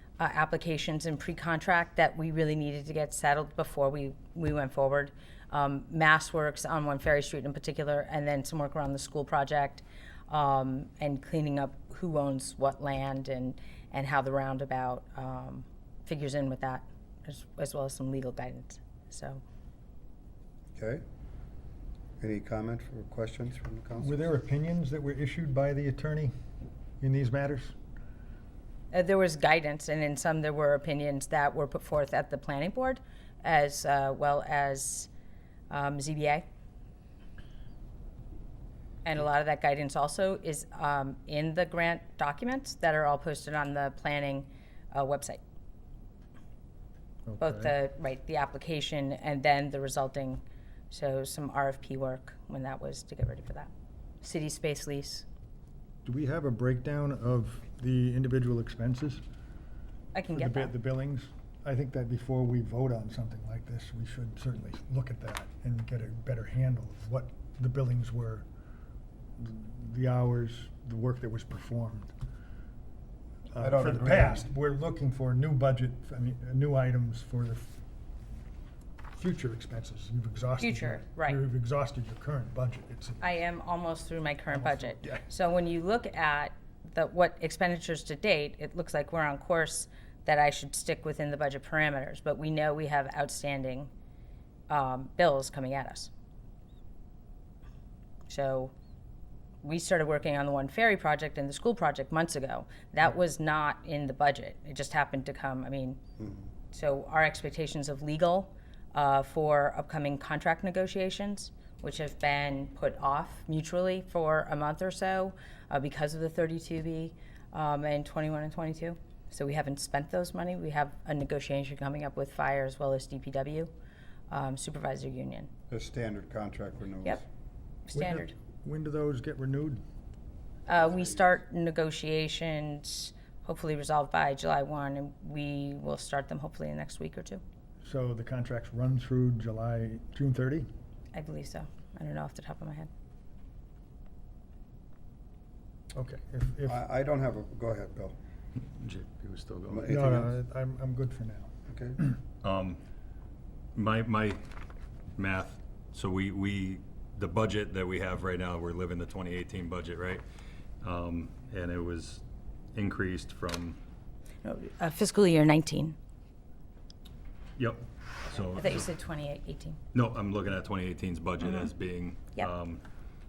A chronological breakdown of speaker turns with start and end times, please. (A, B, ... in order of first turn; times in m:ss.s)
0:00.2-0:19.4 A
0:20.8-0:21.0 B
0:22.2-0:24.2 B
0:24.0-0:26.3 C
0:27.0-0:27.7 C
0:28.9-0:35.1 A
0:35.7-0:36.4 A
0:39.0-0:45.4 A
0:47.3-0:47.7 C
0:47.4-0:53.7 A
0:54.2-0:55.2 A
0:56.0-0:59.2 C
1:00.1-1:00.7 A
1:00.3-1:08.4 C
1:09.4-1:12.1 C
1:13.5-1:17.7 C
1:13.6-1:14.5 B
1:19.1-1:23.3 C
1:20.6-1:21.4 A
1:23.2-1:33.9 A
1:24.5-1:25.2 C
1:34.7-1:36.1 A
1:38.3-1:38.7 A
1:39.6-1:46.0 A
1:46.7-2:03.7 A
2:04.3-2:05.5 A
2:05.7-2:07.2 B
2:07.9-2:08.3 A
2:07.9-2:09.8 C
2:10.7-2:17.4 A
2:10.7-2:11.1 B
2:17.8-2:20.7 C
2:21.1-2:22.9 A
2:25.9-2:26.8 C
2:26.7-2:28.1 B
2:28.6-2:29.9 D
2:29.7-2:30.3 B
2:29.8-2:31.5 C
2:31.7-2:32.0 B
2:32.4-2:32.8 D
2:33.7-2:34.4 D
2:35.2-2:40.2 D
2:40.8-2:42.2 D
2:42.7-2:43.8 D
2:44.4-2:46.0 A
2:47.6-2:48.9 D
2:48.5-2:49.8 A
2:49.9-2:52.8 D
2:51.4-2:51.7 A